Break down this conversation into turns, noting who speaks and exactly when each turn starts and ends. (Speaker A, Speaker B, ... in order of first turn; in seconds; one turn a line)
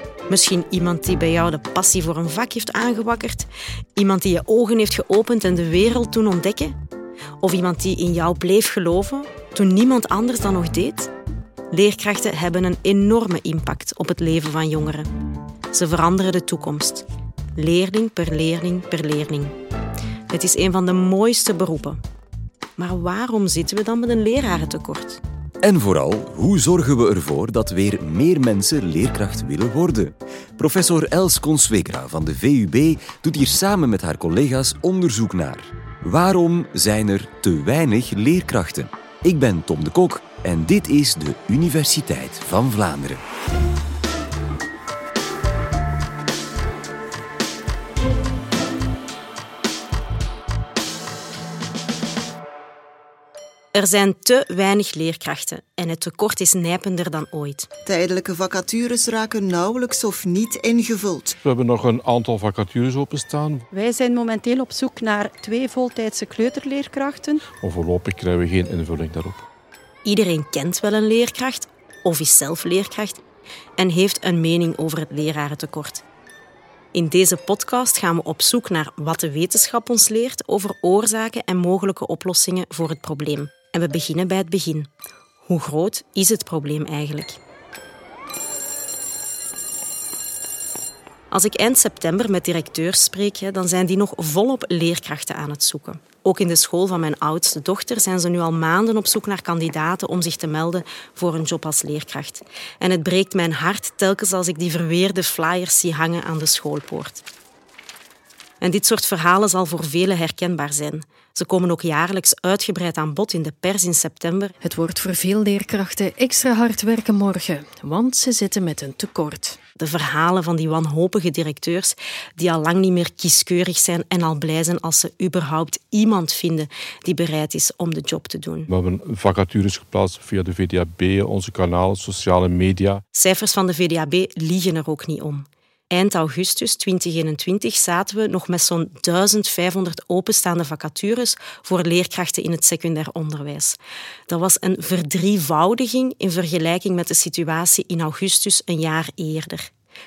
Speaker A: 0.3-6.8
Speaker A: 7.4-11.1
Speaker A: 11.7-15.1
Speaker A: 15.7-17.0
Speaker A: 17.6-19.6
Speaker A: 20.3-22.0
Speaker A: 22.8-25.2
Speaker B: 25.6-43.2
Speaker A: 53.7-57.7
Speaker C: 57.8-61.4
Speaker D: 61.4-63.6
Speaker E: 63.7-67.4
Speaker D: 67.6-69.4
Speaker A: 70.0-73.2
Speaker A: 73.8-76.0
Speaker A: 76.9-84.9
Speaker A: 85.4-87.4
Speaker A: 91.3-107.2
Speaker A: 108.6-114.5
Speaker F: 114.6-119.6
Speaker A: 119.8-128.7
Speaker D: 128.7-133.0
Speaker A: 133.1-149.7